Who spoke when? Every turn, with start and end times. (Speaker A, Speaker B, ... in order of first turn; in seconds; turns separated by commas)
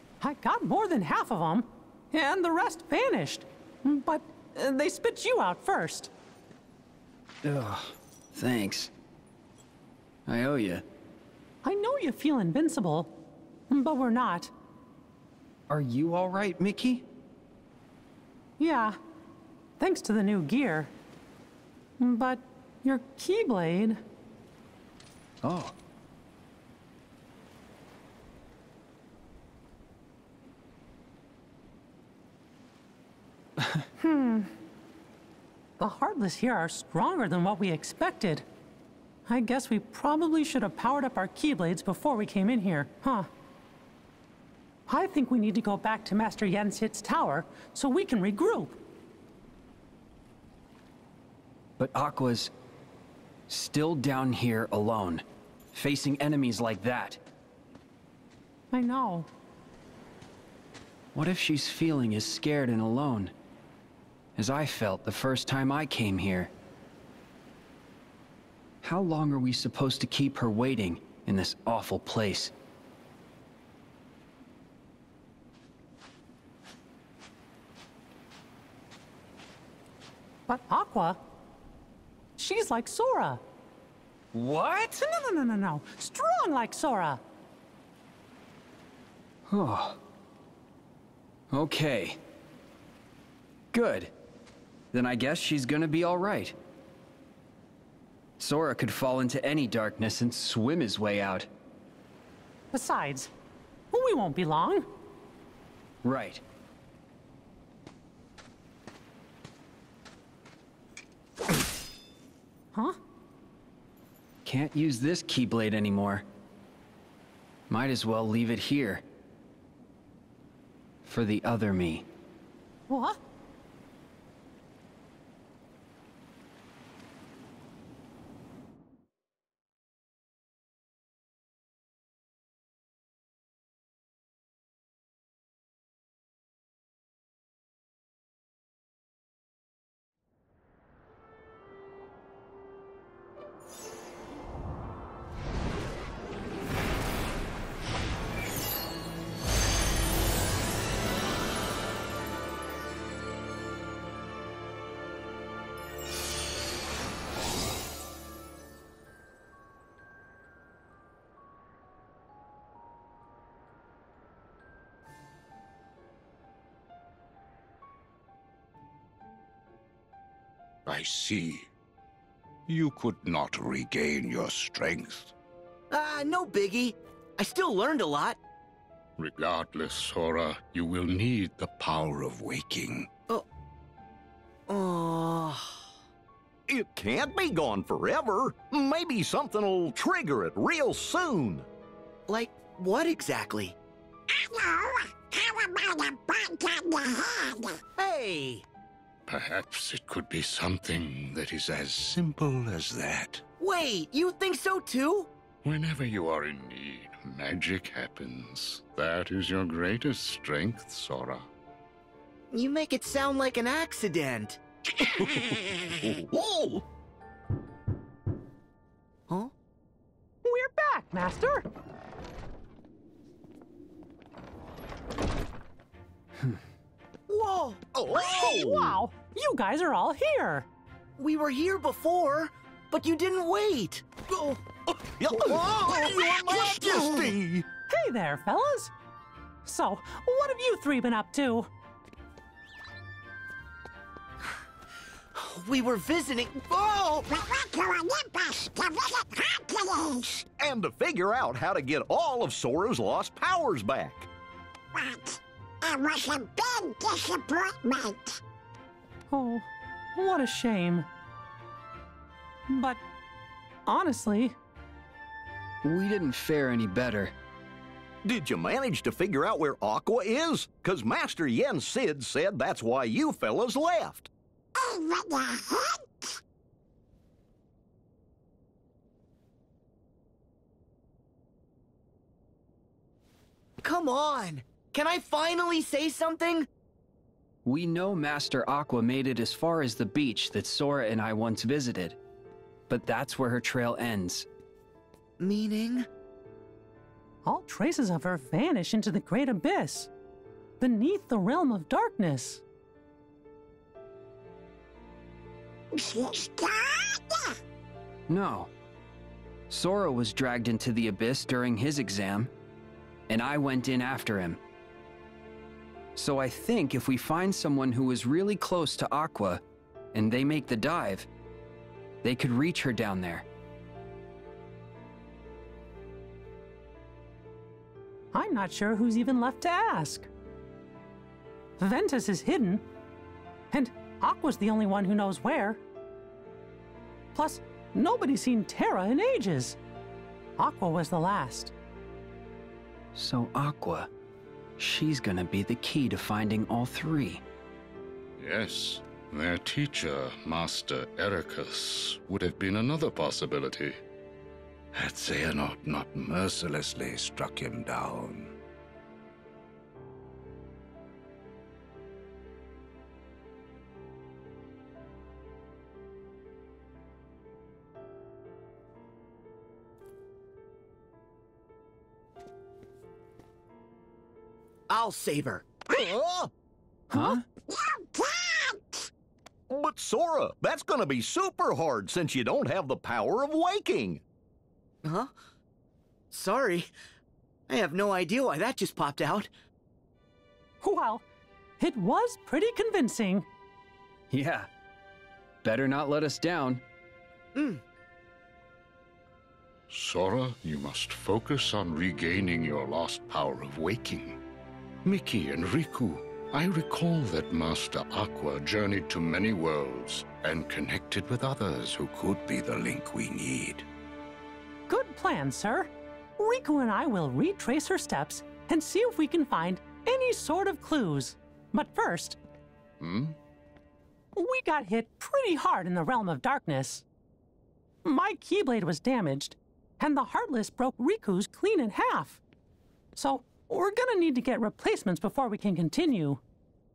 Speaker A: 0.2-6.1, Speaker B: 7.4-8.9, Speaker B: 10.3-10.8, Speaker A: 11.6-13.1, Speaker A: 13.7-14.5, Speaker B: 15.7-17.1, Speaker A: 18.6-19.0, Speaker A: 19.8-20.9, Speaker A: 22.0-24.0, Speaker B: 25.4-25.8, Speaker B: 33.6-33.9, Speaker A: 34.0-34.5, Speaker A: 35.8-38.5, Speaker A: 39.3-43.3, Speaker A: 44.9-48.8, Speaker B: 51.8-52.5, Speaker B: 53.5-57.2, Speaker A: 58.7-59.3, Speaker B: 61.1-63.3, Speaker B: 64.4-66.5, Speaker B: 68.8-72.5, Speaker A: 80.5-81.2, Speaker A: 82.4-83.4, Speaker B: 84.3-85.0, Speaker A: 85.0-87.2, Speaker B: 89.5-90.0, Speaker B: 91.5-92.2, Speaker B: 93.7-94.1, Speaker B: 94.9-96.6, Speaker B: 98.4-101.5, Speaker A: 102.7-103.3, Speaker A: 103.9-104.9, Speaker B: 106.0-106.4, Speaker B: 114.4-116.2, Speaker B: 117.7-119.0, Speaker B: 121.0-122.1, Speaker A: 122.9-123.2, Speaker C: 170.9-171.7, Speaker C: 172.7-175.3, Speaker D: 175.9-178.4, Speaker C: 179.2-183.1, Speaker D: 184.7-185.8, Speaker E: 186.7-191.7, Speaker D: 192.3-193.8, Speaker F: 194.3-197.8, Speaker D: 198.0-198.7, Speaker C: 199.3-203.4, Speaker D: 203.6-205.3, Speaker C: 205.6-211.5, Speaker D: 212.5-214.6, Speaker E: 215.0-216.8, Speaker A: 220.4-221.7, Speaker D: 227.3-227.8, Speaker E: 227.9-229.0, Speaker A: 228.1-230.7, Speaker D: 231.2-234.6, Speaker E: 235.2-237.7, Speaker D: 235.3-237.3, Speaker A: 237.9-238.9, Speaker A: 239.6-241.7, Speaker D: 245.3-247.3, Speaker F: 247.3-250.5, Speaker E: 250.6-254.3, Speaker F: 254.9-258.4, Speaker A: 259.3-261.1, Speaker A: 262.7-263.0, Speaker A: 263.9-264.6, Speaker B: 265.8-267.3, Speaker E: 268.2-274.3, Speaker F: 274.8-276.4, Speaker D: 283.8-286.7, Speaker B: 287.6-292.2, Speaker B: 292.9-294.5, Speaker D: 295.4-296.1, Speaker A: 297.4-300.1, Speaker A: 300.8-302.6, Speaker F: 305.9-307.6, Speaker B: 308.3-308.7, Speaker B: 309.7-312.5, Speaker B: 313.3-314.6, Speaker B: 316.1-319.6, Speaker B: 320.1-321.3, Speaker B: 322.2-323.5, Speaker A: 328.3-330.3, Speaker A: 331.8-332.9, Speaker A: 333.7-335.8, Speaker A: 337.3-339.8, Speaker A: 340.6-341.7, Speaker B: 343.1-344.1, Speaker B: 344.8-347.4, Speaker C: 348.4-354.0, Speaker C: 354.9-358.5, Speaker D: 374.9-375.9, Speaker E: 375.9-376.5, Speaker A: 377.1-377.4, Speaker B: 377.1-377.4, Speaker F: 377.7-379.1, Speaker E: 379.7-384.2, Speaker D: 385.0-385.3, Speaker D: 386.3-386.9, Speaker D: 387.7-389.5, Speaker A: 390.8-391.2, Speaker A: 391.8-393.5, Speaker B: 394.3-394.7, Speaker B: 395.6-396.8, Speaker D: 397.6-397.8, Speaker C: 399.9-404.4, Speaker C: 405.1-413.9, Speaker A: 414.9-422.4, Speaker C: 423.0-423.4, Speaker A: 424.4-427.1, Speaker A: 428.0-432.4, Speaker A: 433.2-436.4